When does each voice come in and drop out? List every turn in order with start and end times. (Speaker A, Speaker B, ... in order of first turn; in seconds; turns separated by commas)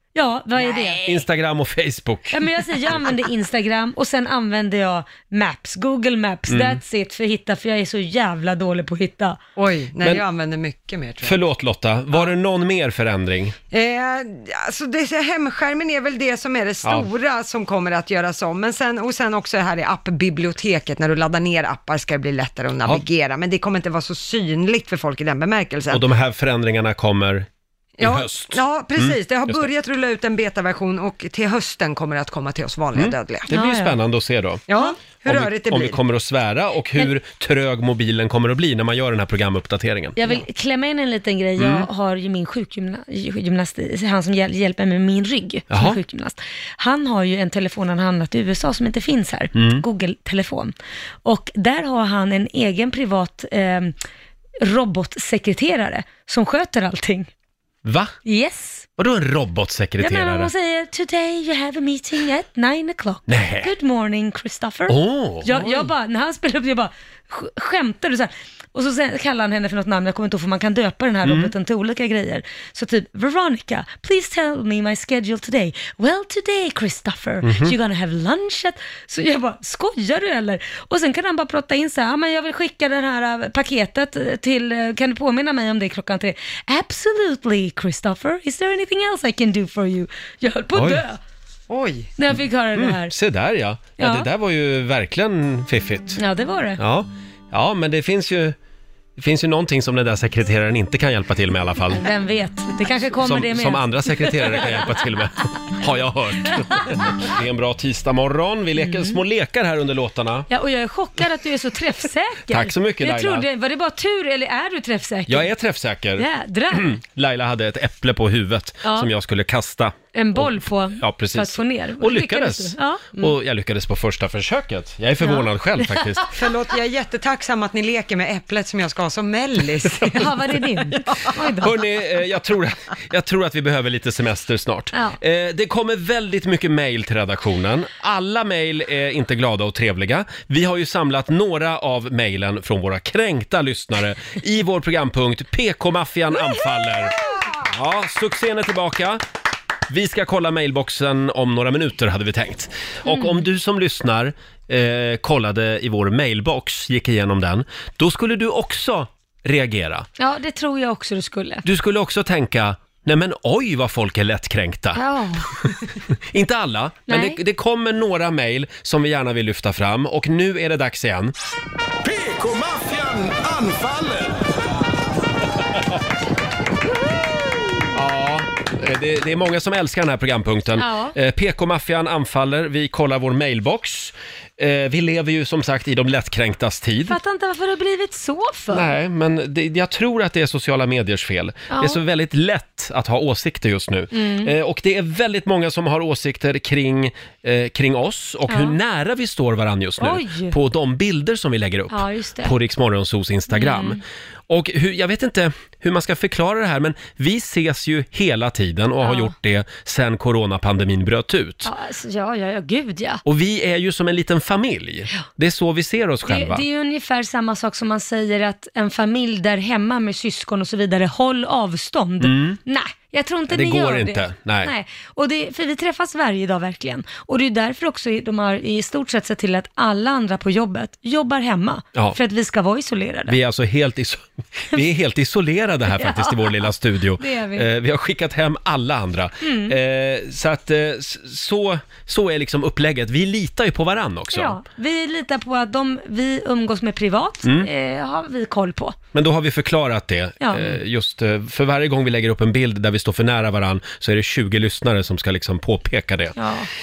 Speaker A: 0.1-1.2, Speaker B: 0.6-1.0, Speaker C: 1.0-2.4, Speaker A: 2.3-9.4, Speaker C: 6.5-6.8, Speaker B: 9.6-11.4, Speaker C: 11.2-13.5, Speaker B: 13.7-26.0, Speaker C: 25.9-27.5, Speaker B: 28.0-33.5, Speaker C: 28.0-29.6, Speaker C: 32.9-34.6, Speaker A: 33.5-34.0, Speaker B: 34.7-36.0, Speaker C: 35.2-40.1, Speaker A: 40.2-50.7, Speaker C: 41.6-41.9, Speaker C: 45.7-46.0, Speaker C: 49.5-49.8, Speaker A: 51.2-53.9, Speaker A: 54.6-57.3, Speaker C: 57.8-58.1, Speaker A: 58.2-58.9, Speaker C: 59.0-60.5, Speaker A: 60.0-91.2, Speaker C: 63.3-63.7, Speaker C: 64.9-65.7, Speaker C: 71.2-71.5, Speaker C: 77.4-77.7, Speaker C: 90.7-91.0, Speaker B: 91.7-92.1, Speaker A: 92.2-93.1, Speaker C: 92.7-96.2, Speaker A: 94.0-94.3, Speaker A: 96.2-96.8, Speaker C: 96.8-98.5, Speaker C: 99.2-102.0, Speaker A: 101.9-105.0, Speaker C: 103.2-110.5, Speaker A: 106.6-106.9, Speaker A: 108.8-109.2, Speaker A: 110.5-115.5, Speaker C: 112.5-113.4, Speaker C: 115.3-126.3, Speaker A: 116.2-117.0, Speaker A: 120.1-123.2, Speaker A: 125.2-126.2, Speaker B: 126.3-130.6, Speaker A: 130.1-131.7, Speaker C: 131.6-149.2, Speaker C: 149.9-160.1, Speaker A: 153.1-153.4, Speaker A: 160.2-161.6, Speaker C: 161.6-165.0, Speaker A: 164.9-165.5, Speaker C: 166.3-171.3, Speaker A: 167.1-167.4, Speaker D: 172.0-174.5, Speaker C: 177.9-187.2, Speaker A: 180.8-181.1, Speaker A: 187.1-188.9, Speaker C: 188.7-211.7, Speaker A: 191.7-192.0, Speaker A: 194.1-194.5, Speaker A: 198.5-198.8, Speaker A: 200.0-200.5, Speaker A: 201.9-202.5, Speaker A: 203.5-204.0, Speaker A: 209.0-209.3, Speaker A: 211.6-213.2, Speaker C: 213.2-216.6, Speaker A: 216.2-233.4, Speaker C: 222.2-222.6, Speaker C: 223.5-224.7, Speaker C: 233.3-244.5, Speaker A: 235.9-237.7, Speaker A: 239.4-239.7, Speaker A: 244.3-249.0, Speaker C: 247.4-247.7, Speaker C: 249.1-256.3, Speaker A: 250.4-250.8, Speaker A: 256.4-256.7